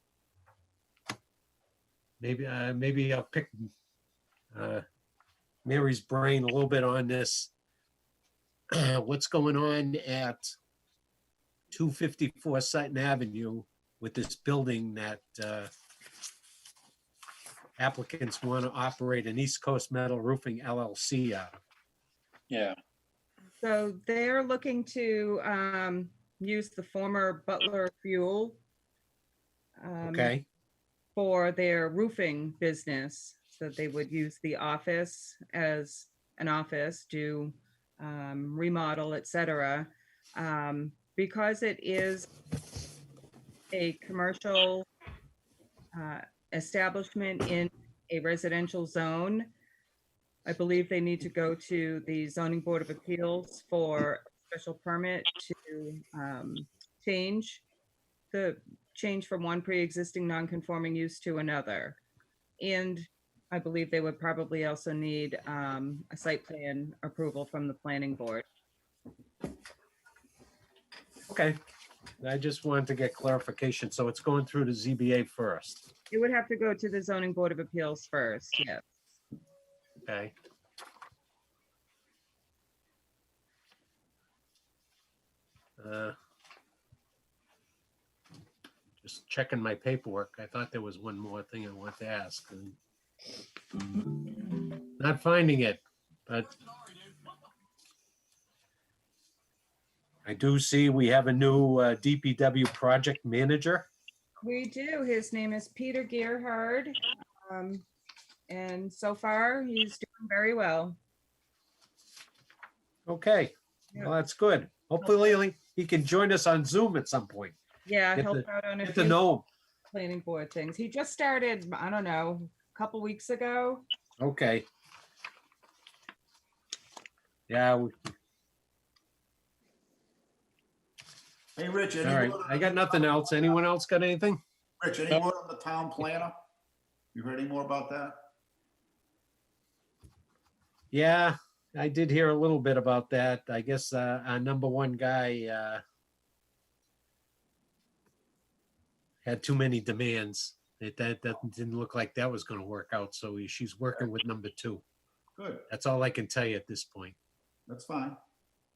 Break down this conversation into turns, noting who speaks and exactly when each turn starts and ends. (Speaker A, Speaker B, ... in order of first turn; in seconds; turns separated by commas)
Speaker A: 2.2-3.7, Speaker A: 4.5-4.8, Speaker A: 5.6-7.5, Speaker A: 8.7-10.5, Speaker A: 11.7-15.7, Speaker A: 17.8-21.5, Speaker B: 22.5-22.8, Speaker C: 23.6-28.6, Speaker C: 29.8-30.3, Speaker A: 30.0-30.4, Speaker C: 31.1-42.3, Speaker C: 43.7-44.9, Speaker C: 45.9-49.5, Speaker C: 50.5-57.6, Speaker C: 58.3-62.0, Speaker C: 62.6-68.4, Speaker A: 71.3-71.6, Speaker A: 72.2-75.9, Speaker C: 76.1-78.8, Speaker A: 80.0-80.3, Speaker A: 85.8-86.1, Speaker A: 89.0-92.8, Speaker A: 94.9-96.6, Speaker A: 100.2-103.9, Speaker C: 104.4-107.8, Speaker C: 108.5-111.0, Speaker A: 113.1-117.5, Speaker C: 117.8-119.2, Speaker A: 118.1-119.5, Speaker C: 119.9-123.8, Speaker A: 124.2-124.7, Speaker A: 127.5-127.9, Speaker B: 131.6-133.4, Speaker A: 132.0-134.4, Speaker B: 134.8-136.3, Speaker B: 137.1-138.2, Speaker A: 140.9-145.8, Speaker A: 149.2-154.8, Speaker B: 155.3-155.6, Speaker A: 155.7-157.2, Speaker B: 157.7-158.2